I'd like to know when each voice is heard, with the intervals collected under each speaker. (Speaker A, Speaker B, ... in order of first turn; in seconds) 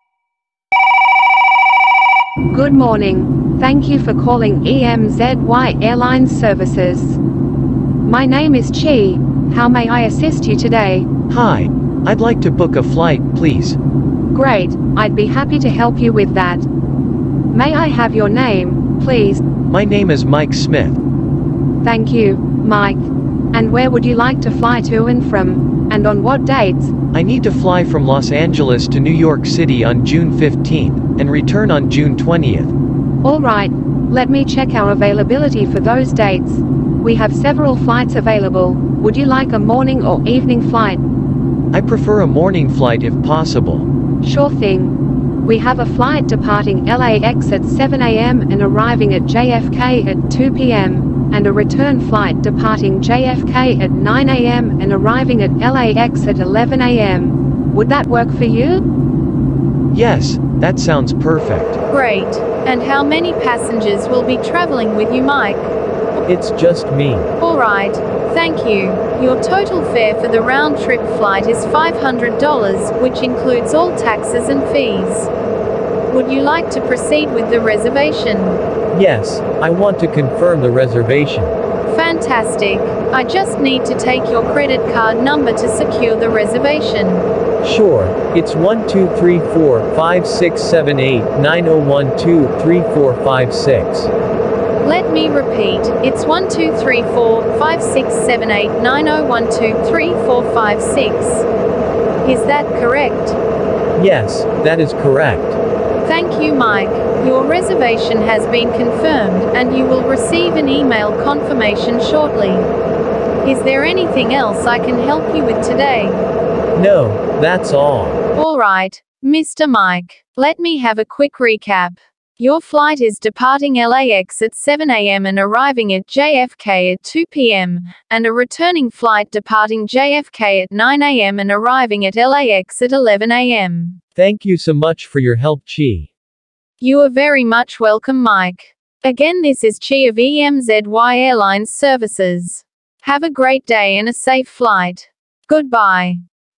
Speaker A: 2.5-7.2, 8.0-11.1, 14.3-16.7, 17.5-19.4, 21.8-26.9, 33.2-41.0, 44.2-58.8
Speaker B: 11.3-13.8, 19.7-21.0, 27.1-32.7, 41.7-43.9, 59.9-61.8, 66.2-67.3, 78.9-81.5, 87.6-94.1, 104.0-105.6, 116.7-118.2, 134.2-136.1
Speaker C: 61.9-65.7, 67.4-75.3, 76.1-78.6, 81.8-87.3, 94.8-101.5, 102.2-103.4, 106.0-112.7, 113.4-116.3, 118.3-134.0, 136.8-146.2